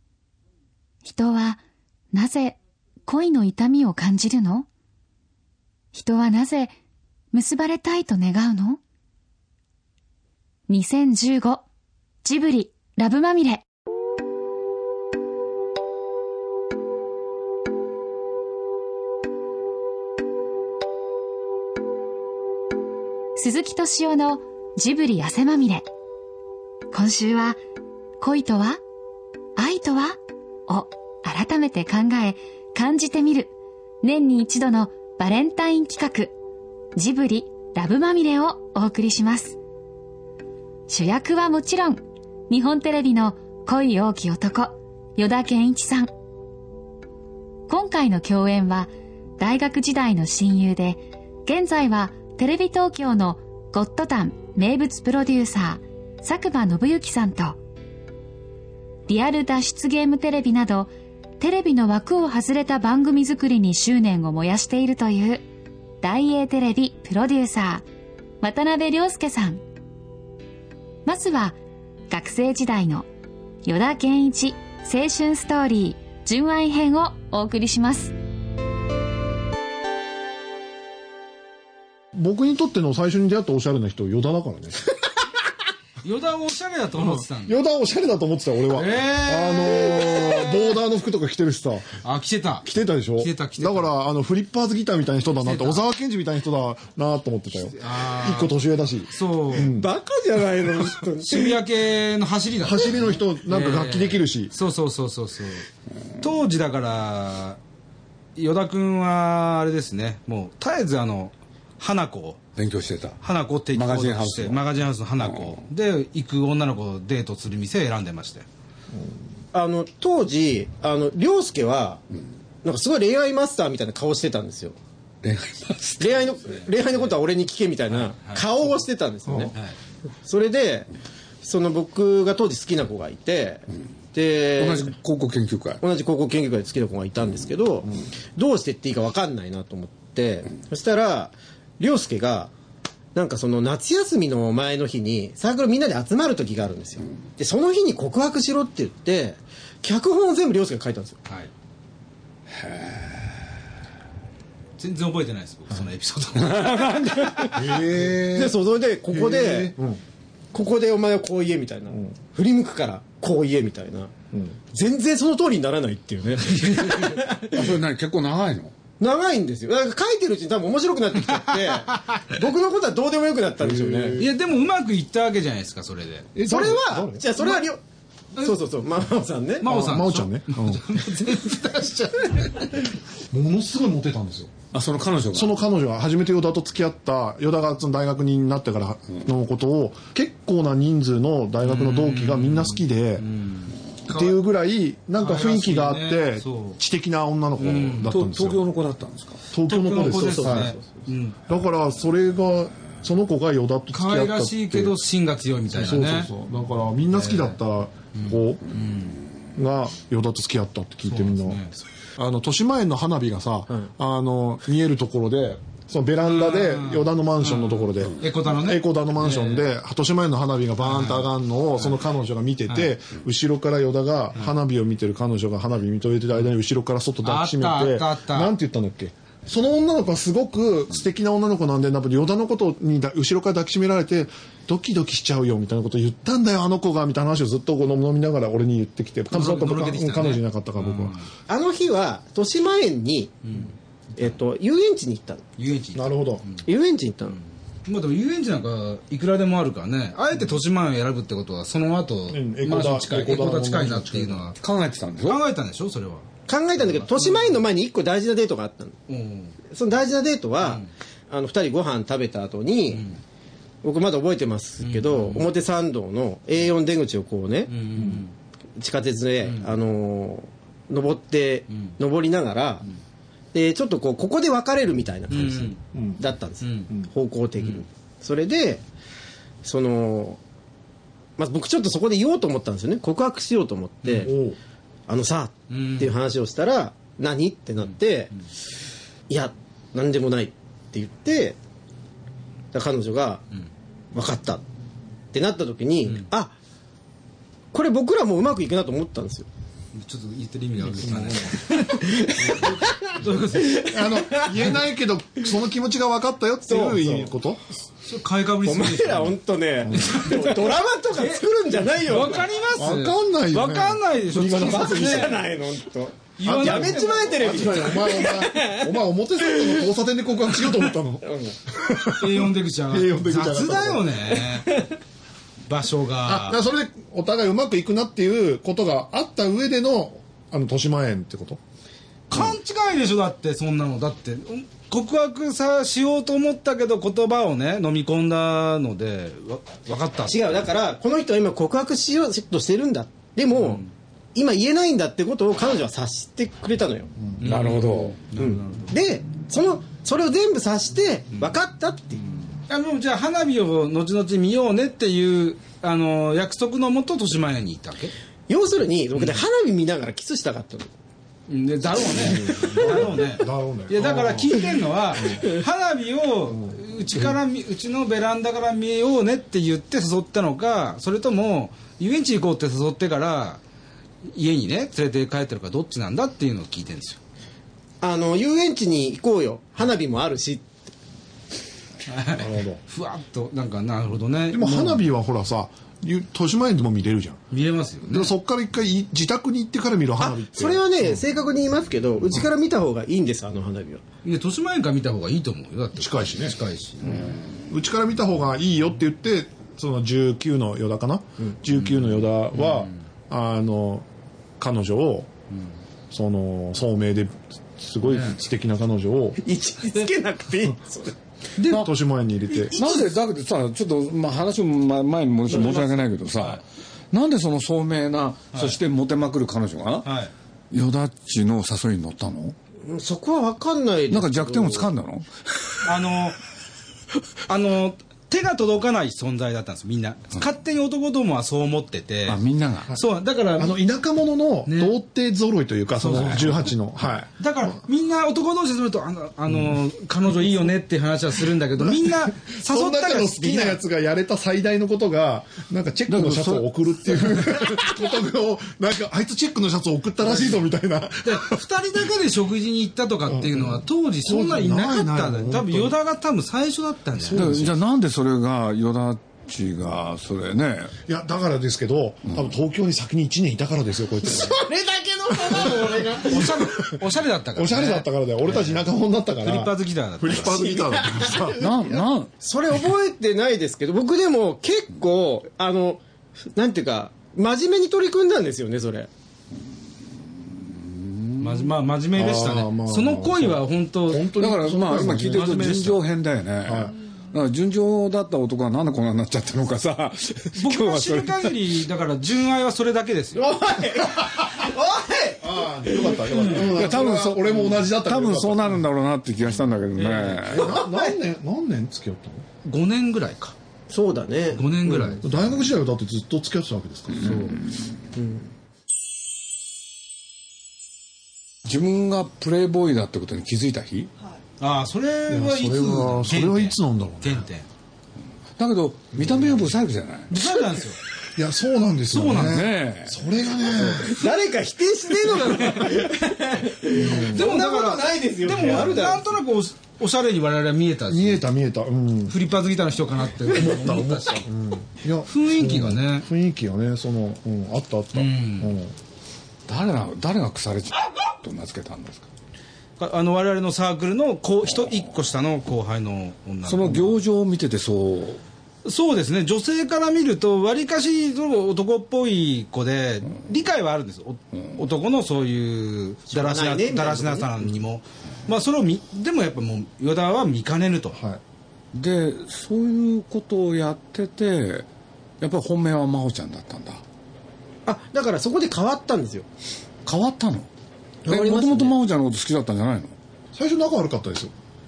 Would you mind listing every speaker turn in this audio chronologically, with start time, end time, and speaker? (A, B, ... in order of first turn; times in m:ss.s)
0:01.0-0:01.6 A
0:02.1-0:04.7 A
0:05.9-0:06.7 A
0:07.3-0:08.8 A
0:10.7-0:11.6 A
0:12.2-0:13.6 A
0:23.4-0:25.8 A
0:26.9-0:27.6 A
0:28.2-0:28.8 A
0:29.6-0:36.3 A
0:37.0-0:39.6 A
0:40.9-0:46.1 A
0:47.7-0:57.6 A
0:59.1-1:05.4 A
1:06.0-1:07.8 A
1:08.4-1:09.6 A
1:11.0-1:11.6 A
1:12.1-1:13.1 A
1:13.6-1:18.1 A
1:22.1-1:24.8 B
1:26.0-1:27.6 C
1:27.0-1:31.9 B
1:28.7-1:30.4 C
1:32.0-1:33.9 C
1:32.6-1:39.9 B
1:35.4-1:35.8 C
1:37.6-1:38.5 C
1:39.1-1:39.7 C
1:39.6-1:41.6 D
1:41.2-1:45.6 C
1:42.6-1:44.5 B
1:46.2-1:47.6 C
1:48.4-1:52.4 C
1:52.6-1:53.2 E
1:53.2-1:58.4 C
1:53.7-1:54.6 E
1:55.2-1:55.6 E
1:59.5-2:02.0 D
2:02.6-2:04.8 D
2:05.2-2:06.3 E
2:06.0-2:09.5 D
2:10.2-2:10.9 D
2:11.4-2:15.0 D
2:14.6-2:15.8 E
2:15.8-2:22.5 D
2:23.1-2:31.2 D
2:32.5-2:33.3 E
2:34.8-2:37.5 C
2:36.4-2:37.4 E
2:36.9-2:37.7 D
2:37.5-2:38.6 B
2:38.3-2:39.7 D
2:39.1-2:40.0 B
2:40.5-2:44.1 D
2:44.3-2:44.6 B
2:44.7-2:47.8 D
2:46.3-2:47.2 C
2:47.5-2:48.7 E
2:49.0-2:54.2 D
2:53.6-2:54.3 B
2:54.2-2:56.3 C
2:56.3-2:57.6 B
2:56.4-2:57.8 D
2:58.4-2:59.6 D
2:59.6-3:02.8 C
2:59.6-3:00.9 B
3:03.3-3:04.5 B
3:04.7-3:05.5 E
3:05.3-3:13.3 B
3:11.6-3:13.7 C
3:14.1-3:18.6 B
3:15.2-3:16.8 C
3:17.6-3:18.1 C
3:18.0-3:19.4 E
3:19.5-3:20.7 B
3:19.6-3:21.4 C
3:20.0-3:20.9 D
3:21.5-3:25.0 B
3:23.9-3:26.3 C
3:25.7-3:28.6 B
3:27.2-3:27.5 C
3:28.2-3:29.2 C
3:29.6-3:31.6 B
3:31.0-3:31.7 C
3:32.2-4:01.2 B
3:36.2-3:39.6 C
3:40.8-3:41.2 C
3:47.2-3:48.5 C
3:59.3-4:01.3 C
4:01.5-4:03.4 D
4:03.4-4:04.3 C
4:04.2-4:05.4 D
4:05.6-4:06.6 C
4:05.9-4:06.4 B
4:06.6-4:07.4 D
4:07.4-4:14.6 C
4:12.3-4:14.4 B
4:14.6-4:15.4 E
4:15.2-4:16.3 C
4:16.5-4:19.0 D
4:16.8-4:17.6 C
4:19.1-4:19.5 C
4:19.7-4:23.0 D
4:20.6-4:20.9 C
4:22.9-4:23.2 C
4:23.8-4:28.0 D
4:24.8-4:25.5 C
4:27.7-4:28.3 C
4:28.8-4:32.8 D
4:33.5-4:38.8 D
4:35.3-4:35.8 C
4:35.9-4:36.2 B
4:36.6-4:36.9 C
4:37.6-4:37.8 C
4:39.6-4:40.4 D
4:41.4-4:44.3 D
4:44.0-4:44.3 C
4:44.2-4:44.6 B
4:45.1-4:48.3 D
4:45.7-4:46.1 C
4:49.3-4:51.6 D
4:52.7-4:53.4 D
4:54.1-4:54.6 D
4:55.3-4:56.5 D
4:57.7-4:59.5 D
4:59.9-5:04.1 C
5:01.0-5:01.6 B
5:01.5-5:04.7 D
5:03.9-5:07.6 B
5:06.7-5:07.3 D
5:08.0-5:09.4 C
5:08.6-5:12.5 D
5:09.8-5:10.2 B
5:09.9-5:15.4 C
5:12.7-5:15.4 B
5:14.6-5:18.9 D
5:16.4-5:18.0 C
5:16.4-5:24.2 B
5:19.5-5:19.8 D
5:21.2-5:21.5 D
5:22.1-5:24.8 C
5:25.7-5:26.6 C
5:26.2-5:31.6 B
5:32.3-5:40.5 C
5:40.2-5:43.8 D
5:43.5-5:43.8 C
5:44.3-5:47.1 D
5:47.4-5:49.0 C
5:47.4-5:48.2 E
5:48.4-5:52.2 D
5:52.7-5:58.1 C
5:58.5-6:00.9 D
5:59.1-5:59.4 C
6:01.5-6:13.6 C
6:02.2-6:04.6 B
6:02.3-6:02.9 D
6:06.5-6:06.8 B
6:14.3-6:17.2 C
6:18.0-6:20.7 D
6:22.1-6:25.0 C
6:22.3-6:22.8 B
6:24.5-6:27.4 B
6:27.5-6:28.3 C
6:28.1-6:30.8 B
6:30.2-6:34.0 D
6:34.2-6:37.4 C
6:36.0-6:36.6 B
6:37.7-6:44.0 B
6:42.6-6:42.9 C
6:44.6-6:45.3 B
6:46.1-6:49.4 B
6:49.4-6:51.2 D
6:51.6-6:51.8 C
6:51.7-6:52.7 B
6:52.7-6:53.0 D
6:52.7-7:00.1 E
6:55.5-6:55.9 C
6:58.5-6:58.8 C
7:00.0-7:00.3 C
7:00.7-7:02.6 E
7:02.8-7:04.9 D
7:04.1-7:05.9 E
7:05.8-7:06.4 C
7:07.4-7:12.4 C
7:12.3-7:12.9 E
7:12.9-7:13.8 C
7:13.6-7:17.7 B
7:14.6-7:15.0 C
7:16.0-7:16.5 C
7:16.1-7:16.5 E
7:17.4-7:23.8 C
7:22.0-7:31.6 B
7:26.1-7:26.6 E
7:31.2-7:37.7 C
7:33.3-7:33.7 B
7:34.2-7:35.9 B
7:37.2-7:37.7 B
7:37.3-7:40.9 E
7:41.1-7:44.6 B
7:44.3-7:46.7 D
7:46.2-7:48.7 C
7:46.4-7:47.0 B
7:47.6-7:51.6 B
7:49.4-7:50.6 C
7:50.3-7:56.0 D
7:51.6-7:52.3 E
7:56.5-7:59.1 D
8:00.4-8:01.7 E
8:01.4-8:04.3 C
8:02.2-8:05.8 B
8:04.4-8:11.5 E
8:05.0-8:06.0 C
8:06.6-8:06.9 B
8:10.6-8:13.4 C
8:13.3-8:16.6 D
8:15.4-8:18.8 B
8:16.6-8:20.7 E
8:20.0-8:20.3 C
8:20.5-8:22.4 B
8:20.5-8:21.2 D
8:22.6-8:23.5 C
8:23.9-8:25.2 D
8:24.5-8:25.3 C
8:25.2-8:27.5 B
8:27.2-8:27.6 D
8:27.3-8:27.9 E
8:28.1-8:28.5 D
8:31.6-8:34.1 E
8:34.6-8:37.7 C
8:35.3-8:37.4 B
8:38.6-8:40.3 E
8:40.3-8:41.0 C
8:41.4-8:44.2 B
8:42.1-8:42.6 C
8:42.4-8:43.1 E
8:43.8-8:49.2 D
8:45.4-8:45.9 C
8:47.0-8:47.5 B
8:47.0-8:51.4 C
8:51.1-8:52.4 B
8:52.3-8:54.4 C
8:53.5-8:58.9 B
8:55.3-8:56.3 C
8:58.1-8:58.7 C
8:59.7-9:02.3 E
9:03.0-9:07.1 C
9:06.6-9:08.4 E
9:08.8-9:21.2 C
9:16.3-9:17.5 D
9:21.1-9:21.4 B
9:21.9-9:24.9 E
9:25.4-9:27.0 E
9:27.8-9:29.5 D
9:30.0-9:30.7 E
9:31.2-9:32.0 D
9:31.3-9:33.2 E
9:33.5-9:34.5 B